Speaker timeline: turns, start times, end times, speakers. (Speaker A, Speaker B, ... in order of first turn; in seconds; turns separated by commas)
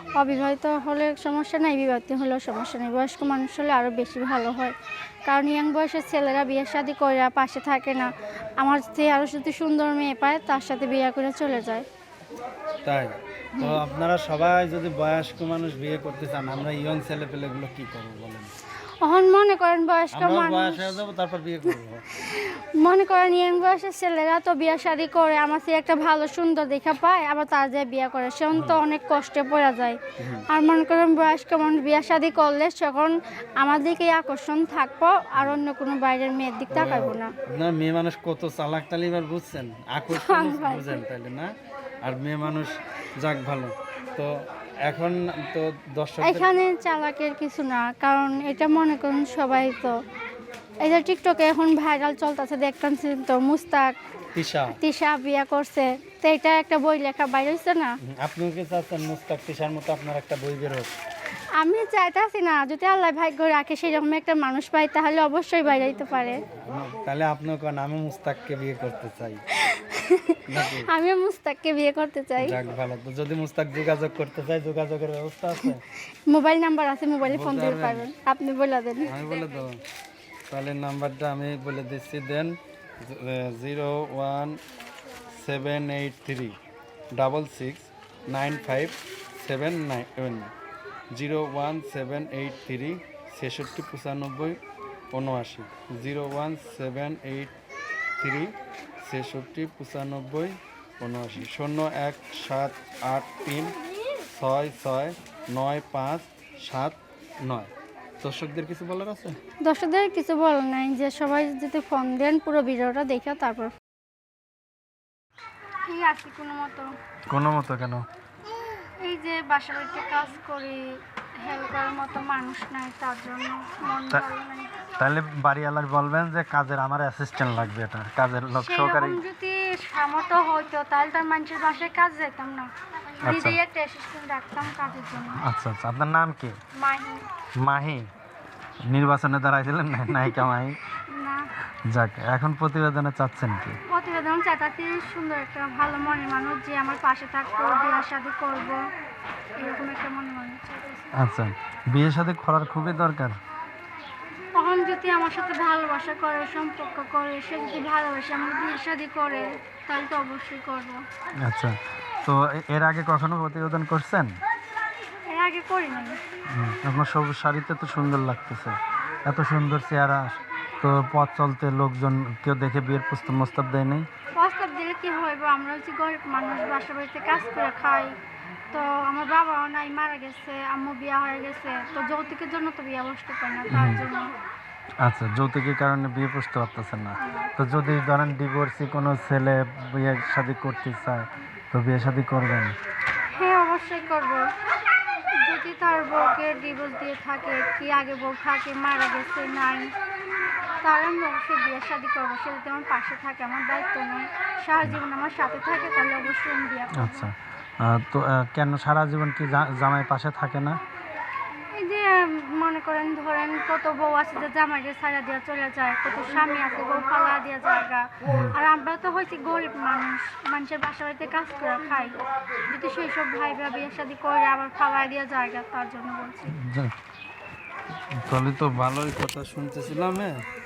Speaker A: 0.2-4.8, Speaker A: 5.3-8.1, Speaker A: 8.6-11.8, Speaker B: 12.8-18.5, Speaker A: 19.0-21.0, Speaker B: 20.1-22.1, Speaker A: 22.1-37.4, Speaker B: 28.5-28.8, Speaker B: 30.2-30.5, Speaker B: 35.4-35.6, Speaker B: 36.7-46.5, Speaker A: 40.1-40.9, Speaker A: 46.2-50.0, Speaker A: 50.8-54.0, Speaker B: 54.4-54.8, Speaker A: 54.8-58.0, Speaker B: 58.0-60.9, Speaker A: 61.6-66.4, Speaker B: 66.7-69.4, Speaker A: 69.6-72.6, Speaker B: 70.5-70.9, Speaker B: 72.4-75.8, Speaker A: 76.3-79.1, Speaker B: 77.2-78.1, Speaker B: 79.0-79.8, Speaker B: 80.5-84.6, Speaker B: 85.3-86.6, Speaker B: 87.2-90.5, Speaker B: 91.1-94.6, Speaker B: 95.1-97.5, Speaker B: 98.2-109.4, Speaker A: 109.6-113.7, Speaker A: 115.9-116.9, Speaker B: 117.3-118.1, Speaker A: 118.8-124.8, Speaker B: 125.0-129.2, Speaker A: 128.6-135.4, Speaker B: 133.2-133.6, Speaker B: 135.4-136.6, Speaker A: 136.8-137.3, Speaker B: 137.6-138.1, Speaker B: 138.8-140.8, Speaker A: 141.1-141.5, Speaker B: 141.9-143.8, Speaker A: 143.9-148.8, Speaker A: 149.6-150.9, Speaker B: 151.2-153.4, Speaker A: 154.6-161.0, Speaker B: 161.4-164.4, Speaker A: 165.3-166.2, Speaker B: 166.5-174.1, Speaker A: 174.4-178.1, Speaker A: 178.7-184.3, Speaker B: 183.7-184.1, Speaker B: 185.0-192.8, Speaker A: 187.2-187.5, Speaker A: 193.3-194.5, Speaker A: 195.4-199.9, Speaker A: 200.8-207.3, Speaker B: 206.9-210.8, Speaker A: 211.7-222.2, Speaker B: 218.2-218.6, Speaker A: 222.7-226.6, Speaker B: 226.5-226.9, Speaker B: 228.1-230.4